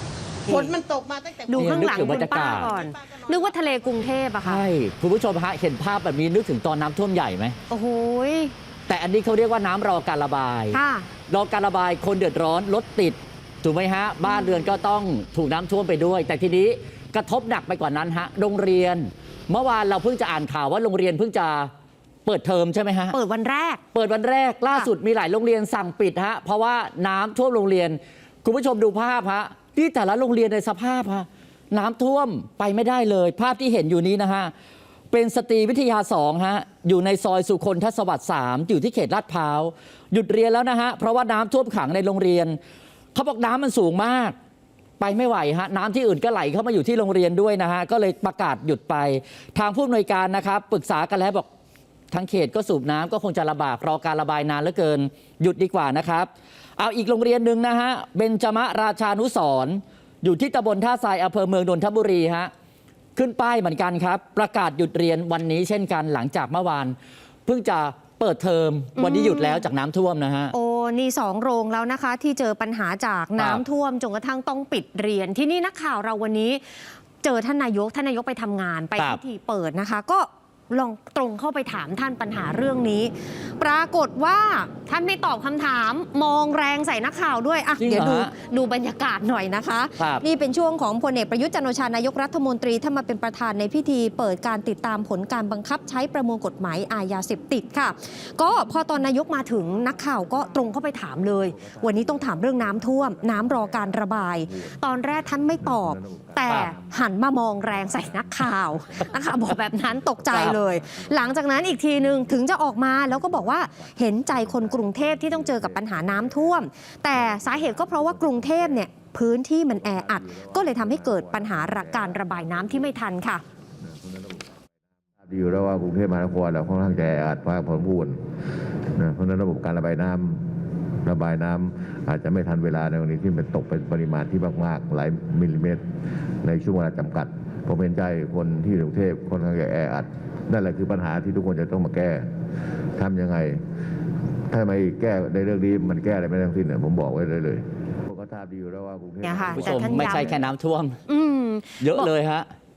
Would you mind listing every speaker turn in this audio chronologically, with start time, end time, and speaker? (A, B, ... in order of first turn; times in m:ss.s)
0:00.4-0:04.1 A
0:00.5-0:00.8 B
0:01.5-0:04.6 B
0:01.5-0:02.7 C
0:04.4-0:07.6 C
0:07.7-0:08.5 B
0:08.9-0:10.8 C
0:10.7-0:11.1 B
0:11.3-0:21.7 C
0:14.3-0:14.6 B
0:22.2-0:23.2 C
0:23.1-0:23.8 B
0:23.9-0:34.5 C
0:35.1-0:42.6 C
0:43.1-0:44.3 C
0:45.0-0:51.5 C
0:52.1-1:02.5 C
1:03.2-1:06.9 C
1:07.4-1:10.5 C
1:09.0-1:09.6 B
1:10.5-2:03.4 B
1:13.4-1:13.6 C
1:27.8-1:28.3 C
1:30.0-1:30.2 C
1:41.5-1:47.0 D
1:47.5-1:58.9 D
1:50.3-1:50.6 C
1:59.7-2:03.0 D
2:03.8-2:04.5 D
2:05.2-2:08.2 D
2:08.9-2:10.5 D
2:11.0-2:15.8 D
2:16.4-2:22.3 D
2:23.0-2:23.6 D
2:24.5-2:30.4 D
2:29.2-2:30.4 B
2:29.5-2:31.0 C
2:31.1-2:32.1 B
2:31.8-2:32.5 C